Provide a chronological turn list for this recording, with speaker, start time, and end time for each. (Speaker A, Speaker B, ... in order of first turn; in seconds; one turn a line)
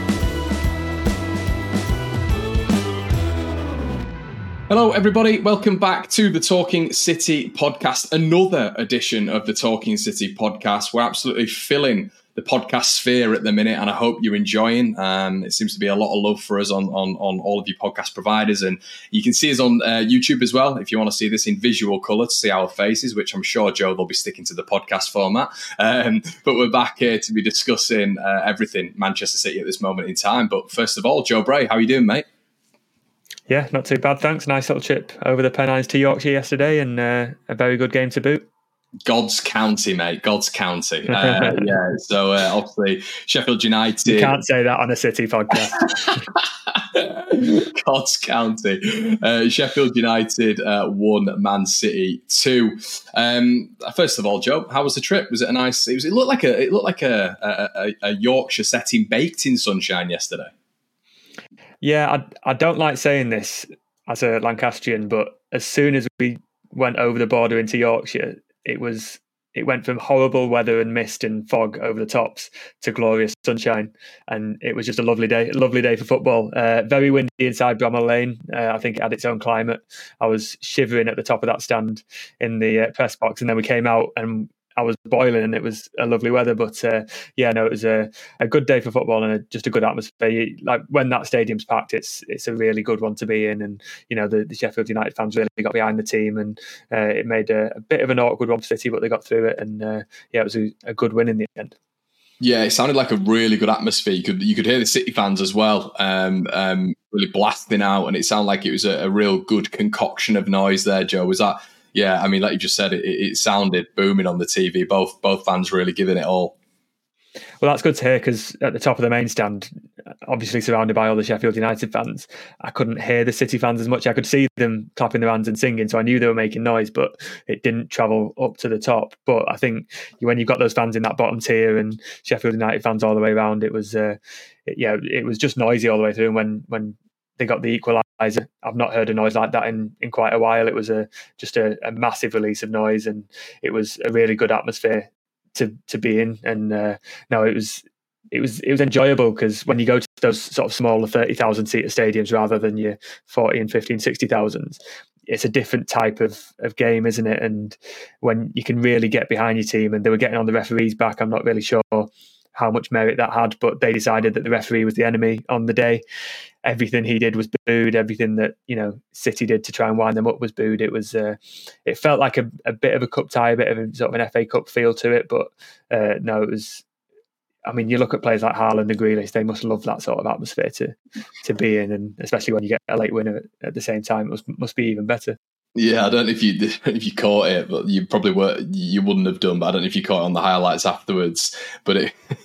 Speaker A: 4.7-32.3
Speaker B: 33.5-38.5
Speaker A: 39.0-44.4
Speaker B: 41.1-41.7
Speaker B: 44.1-45.9
Speaker A: 45.8-60.5
Speaker B: 61.8-101.8
Speaker A: 102.4-116.5
Speaker B: 117.6-119.7
Speaker B: 120.3-166.0
Speaker B: 166.7-176.8
Speaker B: 177.7-185.4
Speaker A: 185.8-192.3